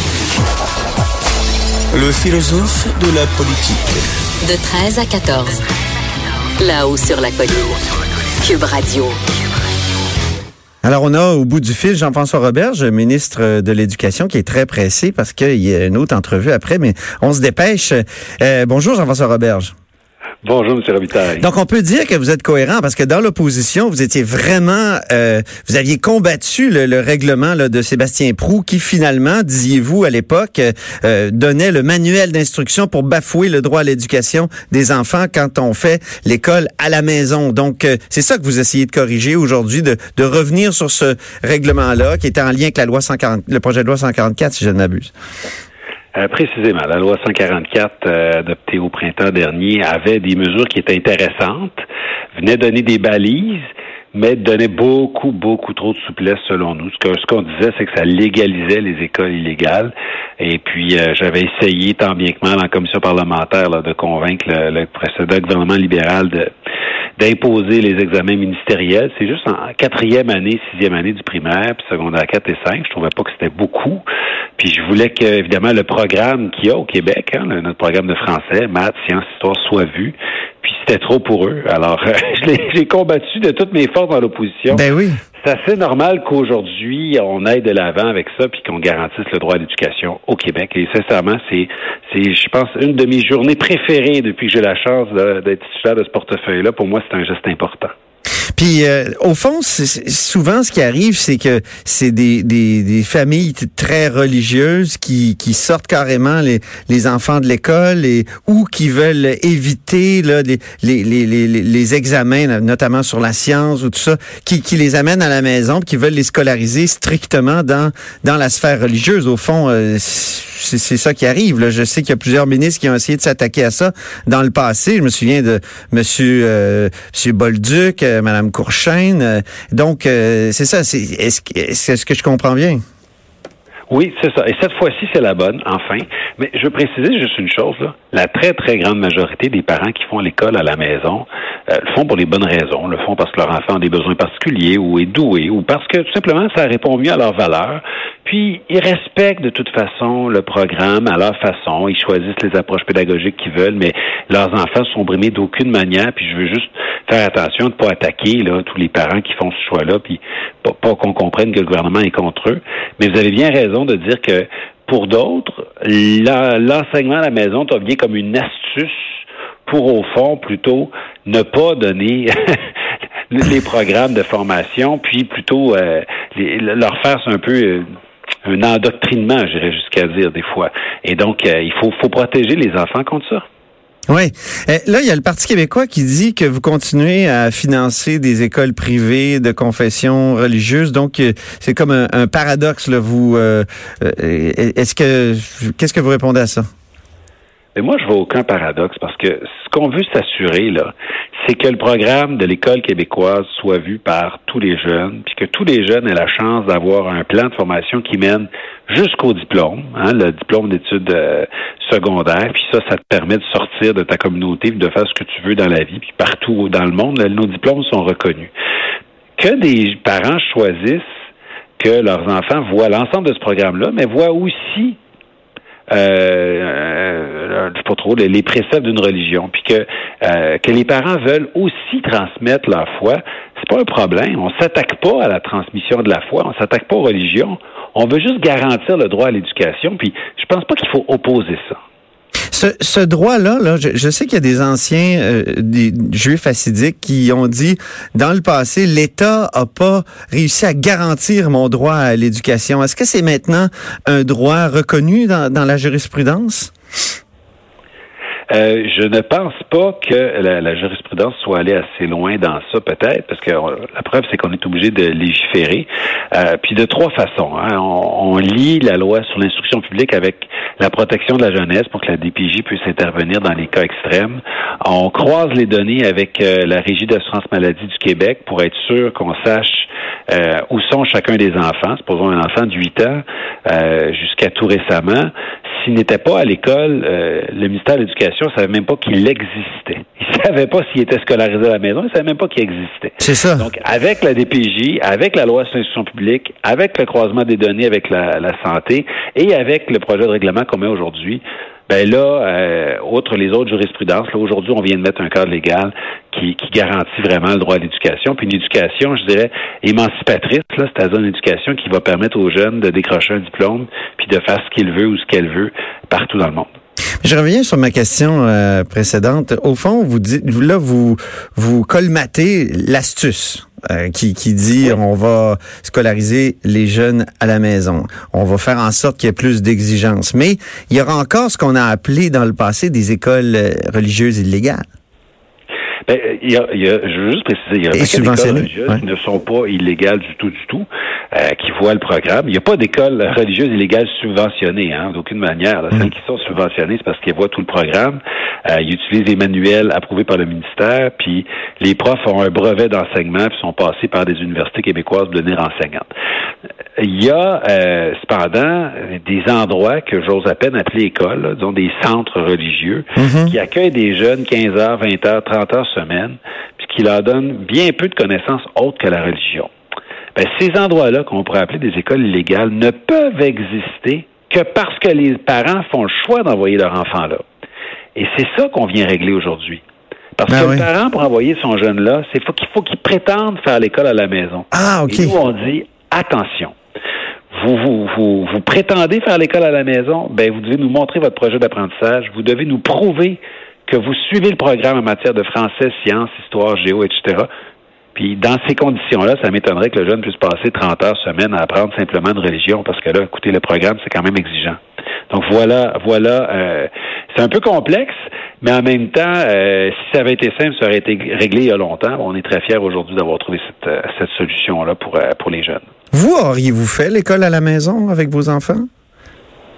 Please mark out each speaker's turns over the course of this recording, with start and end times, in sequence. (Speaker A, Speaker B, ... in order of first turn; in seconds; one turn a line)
Speaker A: 1.9-4.0
Speaker B: 4.4-5.6
Speaker B: 6.6-7.8
Speaker B: 8.4-9.2
Speaker C: 10.8-19.7
Speaker D: 20.4-21.5
Speaker C: 21.4-45.1
Speaker D: 46.1-51.8
Speaker D: 52.4-53.6
Speaker D: 54.1-66.5
Speaker D: 67.2-74.0
Speaker D: 74.6-84.8
Speaker C: 84.7-85.2
Speaker D: 85.4-97.9
Speaker C: 98.5-132.8
Speaker D: 133.9-172.7
Speaker D: 173.3-177.9
Speaker D: 178.4-183.4
Speaker C: 184.1-196.7
Speaker D: 197.8-218.5
Speaker D: 219.4-221.0
Speaker D: 221.8-225.0
Speaker D: 225.9-241.8
Speaker C: 242.5-256.7
Speaker D: 258.5-316.7
Speaker C: 293.2-293.7
Speaker C: 317.2-334.8
Speaker D: 336.1-356.1
Speaker C: 337.9-339.0
Speaker D: 357.0-369.7
Speaker C: 363.2-363.5
Speaker D: 370.3-377.4
Speaker D: 378.1-379.8
Speaker D: 380.4-386.7
Speaker C: 380.5-380.9
Speaker C: 384.7-385.4
Speaker D: 387.5-397.5
Speaker D: 398.1-404.8
Speaker D: 405.3-415.8
Speaker C: 416.1-418.9